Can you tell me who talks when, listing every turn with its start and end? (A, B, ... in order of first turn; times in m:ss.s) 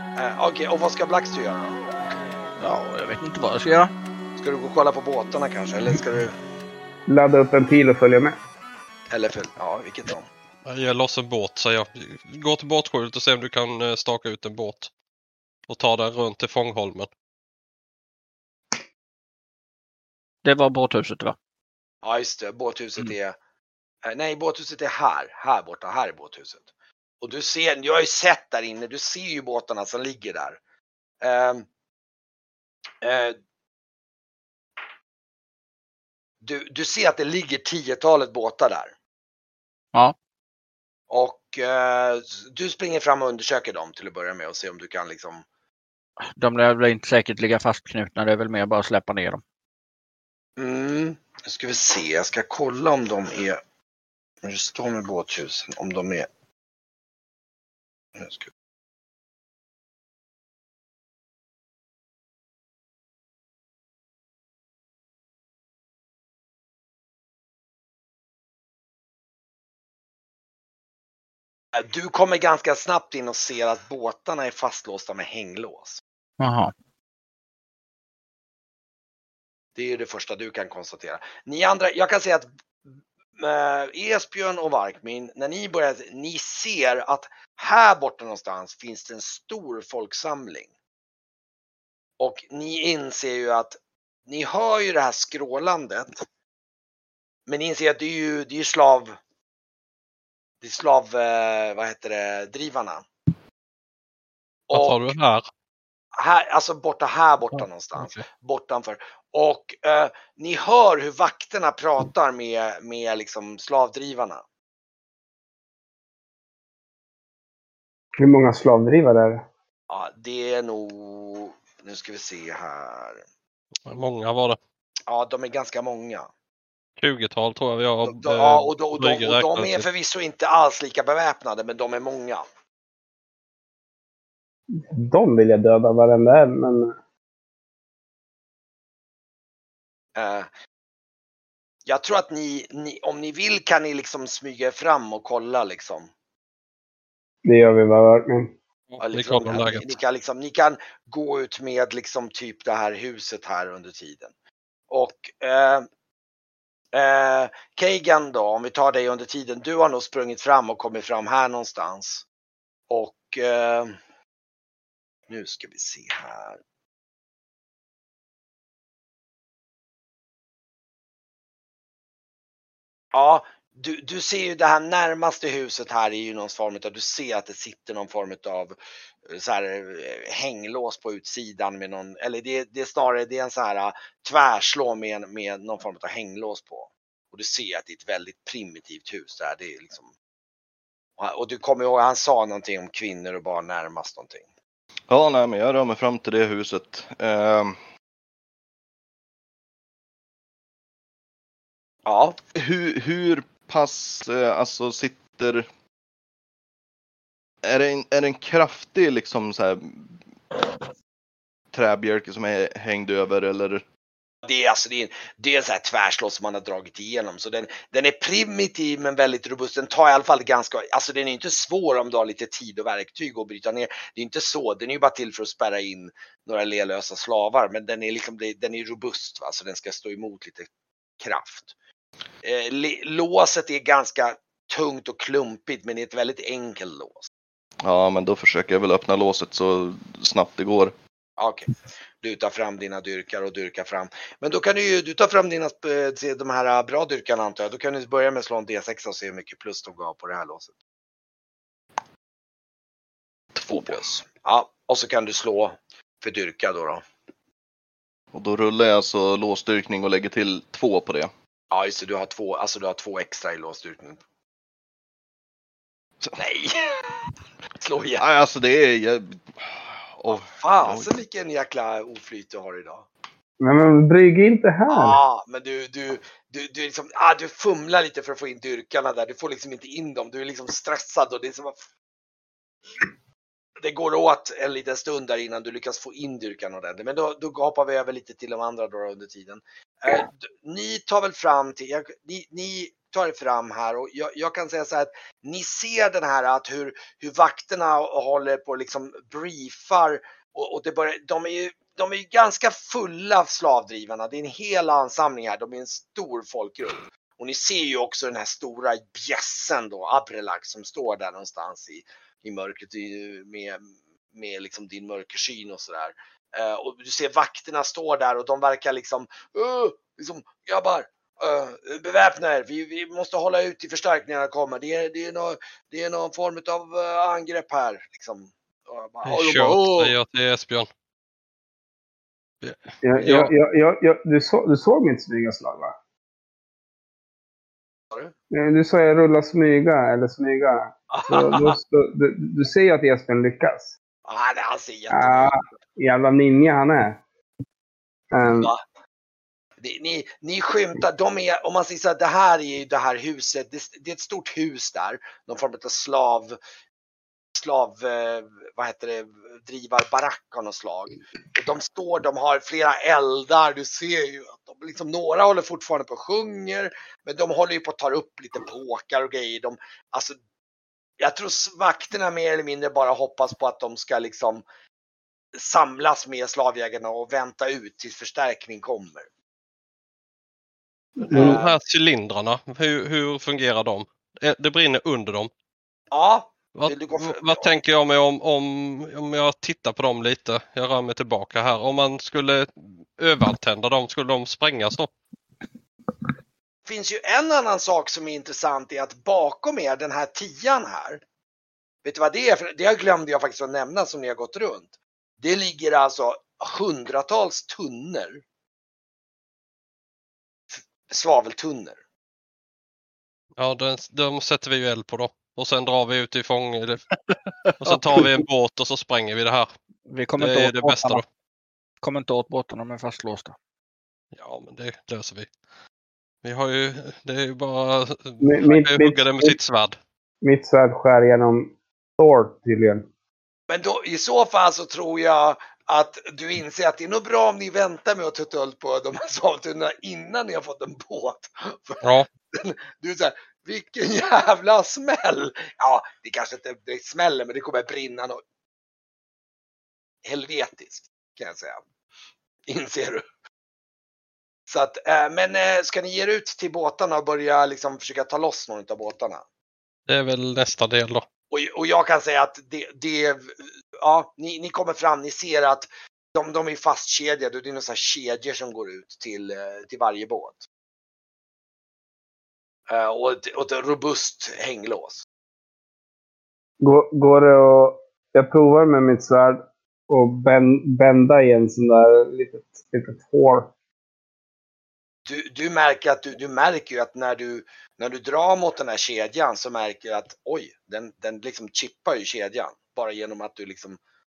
0:00.2-0:01.8 A
0:02.6-0:03.9 B
0:04.4-0:06.4 A
0:07.1-0:08.4 C
0:09.1-0:10.3 A
0:10.6-0:14.9 D
0:15.7-0:17.1 D
0:20.4-0:21.4 B
0:22.0-0:23.4 A
0:24.0-0:26.7 A
0:27.2-0:30.6 A
0:31.2-0:31.7 A
0:33.0-0:33.4 A
0:36.4-0:39.0 A
0:41.1-0:45.4 A
0:46.4-0:49.4 B
0:50.6-0:53.6 A
0:54.4-0:56.3 A
0:58.2-0:58.5 A
1:11.8-1:16.0 A
1:16.4-1:16.7 B
1:19.8-1:22.5 A
1:23.4-1:30.7 A
1:32.2-1:36.2 A
1:37.5-1:39.2 A
1:40.6-1:43.1 A
1:44.7-1:45.2 A
1:44.7-1:45.4 D
1:46.2-1:54.4 A
1:48.0-1:48.2 D
1:58.2-1:59.4 C
1:59.9-2:03.2 A
2:03.9-2:04.6 D
2:05.1-2:06.3 A
2:07.0-2:09.8 D
2:08.0-2:12.4 A
2:14.8-2:17.0 C
2:20.2-2:20.5 A
2:21.9-2:26.1 A
2:27.4-2:28.5 C
2:28.9-2:29.9 D
2:29.0-2:34.3 A
2:34.9-2:35.9 A
2:36.9-2:42.2 A
2:42.9-2:44.0 A
2:45.3-2:46.6 A
2:53.1-2:58.8 A
2:59.3-3:10.1 A
3:11.2-3:14.5 A
3:15.1-3:17.8 E
3:22.1-3:22.4 A
3:22.5-3:25.7 E
3:27.6-3:30.2 E
3:31.7-3:33.8 E
3:34.4-3:50.7 A
3:51.2-3:51.7 A
3:52.4-3:57.3 A
3:57.8-4:00.9 E
4:01.4-4:01.7 A
4:02.2-4:10.7 A
4:13.6-4:13.9 E
4:13.7-4:17.0 A
4:18.3-4:21.3 E
4:21.7-4:24.2 A
4:26.4-4:27.1 A
4:27.8-4:28.2 A
4:28.2-4:31.1 E
4:30.3-4:33.1 A
4:33.6-4:35.2 C
4:34.9-4:41.8 A
4:43.8-5:30.1 A
5:29.3-5:30.9 D
5:32.6-5:33.5 D
5:33.0-5:36.0 C
5:33.2-5:33.4 A
5:38.5-5:43.9 C
5:41.1-5:41.8 A
5:44.3-5:45.6 A
5:45.1-5:47.2 C
5:48.3-5:48.7 C
5:48.5-5:48.8 A
5:49.8-5:56.6 A
5:57.6-6:10.4 A
6:11.2-6:14.6 A
6:15.6-6:19.3 A
6:21.2-6:25.5 D
6:21.3-6:21.8 A
6:21.3-6:21.6 C
6:26.1-6:27.7 A
6:26.8-6:35.1 D
6:36.9-6:41.2 A
6:42.0-6:48.4 A
6:51.1-6:52.0 A
6:53.6-6:57.0 D
6:57.8-6:59.7 D
7:00.1-7:01.2 B
7:00.4-7:01.2 D
7:02.0-7:03.6 B
7:04.4-7:05.5 D
7:06.4-7:10.0 D
7:08.4-7:09.6 C
7:10.4-7:13.1 C
7:13.7-7:28.4 A
7:22.0-7:22.3 D
7:30.2-7:31.8 A
7:32.7-7:33.2 A
7:34.7-7:39.4 A
7:40.1-7:41.2 D
7:41.5-7:50.7 A
7:52.9-7:55.2 A
7:56.8-8:03.7 C
8:05.3-8:14.0 A